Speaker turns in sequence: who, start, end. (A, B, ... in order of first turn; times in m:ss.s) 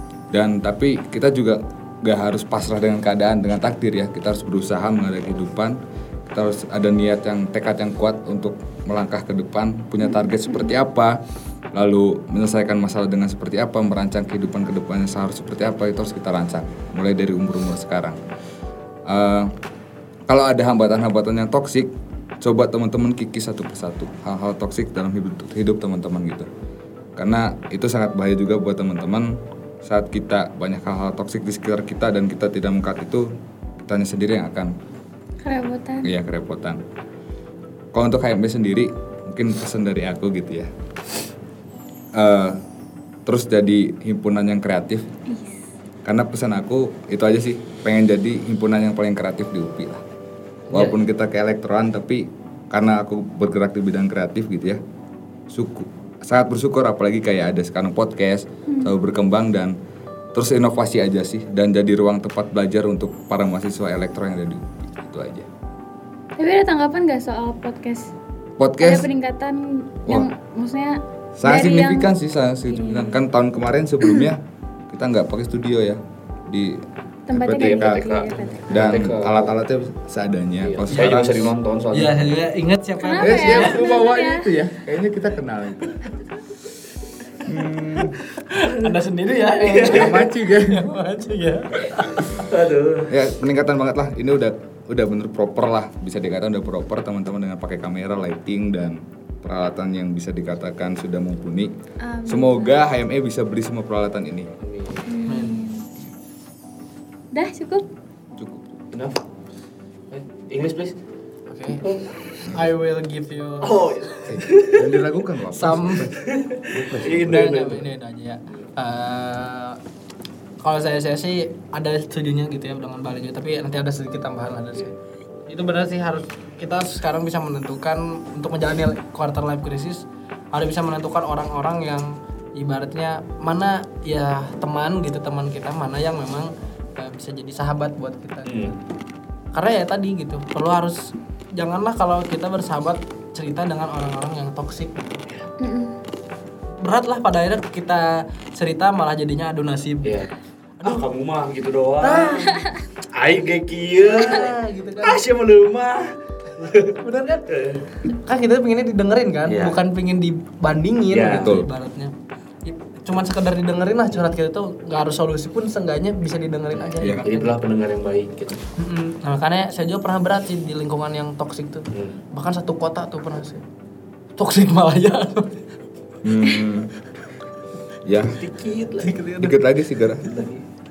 0:00.3-0:11.2 A
0:11.7-0:18.2 A
0:19.1-0:19.5 A
0:20.3-0:26.5 A
0:27.2-0:33.3 A
0:33.8-0:34.7 A
0:35.4-0:36.1 B
0:36.0-0:36.8 A
0:37.9-0:40.7 A
0:42.1-0:42.6 A
0:43.2-0:45.1 A
0:45.3-0:45.6 B
0:46.0-0:50.0 A
0:50.7-0:51.0 C
0:50.7-0:54.8 A
0:55.5-0:59.8 A
1:00.3-1:05.5 A
1:06.4-1:08.1 B
1:08.6-1:09.1 A
1:08.8-1:12.1 B
1:11.4-1:21.5 A
1:12.7-1:13.2 B
1:17.3-1:18.6 B
1:17.5-1:19.5 C
1:20.6-1:22.3 C
1:20.9-1:21.2 D
1:21.9-1:23.8 D
1:23.0-1:24.5 B
1:23.2-1:26.0 A
1:27.4-1:28.2 A
1:28.0-1:32.3 D
1:29.6-1:30.2 C
1:29.8-1:30.8 A
1:32.3-1:33.1 C
1:33.1-1:41.7 A
1:42.0-1:42.8 B
1:42.2-1:44.5 A
1:44.6-1:45.5 C
1:45.1-1:45.8 B
1:45.2-1:45.7 D
1:47.3-1:47.8 B
1:48.4-1:48.7 A
1:48.9-1:49.2 C
1:50.1-1:50.9 C
1:51.5-1:54.4 D
1:53.6-1:55.0 C
1:54.3-1:57.5 A
1:55.5-1:56.1 D
1:56.2-1:57.8 C
1:57.2-1:59.8 D
2:00.6-2:04.9 D
2:05.5-2:18.8 D
2:18.4-2:18.7 C
2:19.5-2:25.2 D
2:25.6-2:26.0 B
2:26.8-2:30.2 D
2:30.0-2:30.3 C
2:30.8-2:32.6 C
2:32.0-2:32.6 D
2:33.1-2:36.9 C
2:34.0-2:35.2 D
2:36.6-2:37.5 D
2:37.5-2:37.9 C
2:38.0-2:42.1 D
2:39.5-2:39.8 C
2:41.1-2:41.6 C
2:41.4-2:41.7 A
2:42.6-2:47.5 D
2:46.8-2:48.6 C
2:47.0-2:47.3 A
2:48.8-2:53.6 D
2:51.9-2:52.2 C
2:54.4-2:55.7 D
2:56.2-2:56.9 A
2:58.0-2:58.4 A
2:58.3-2:59.2 C
2:59.0-2:59.6 D
2:59.4-3:00.4 A
3:00.2-3:00.6 C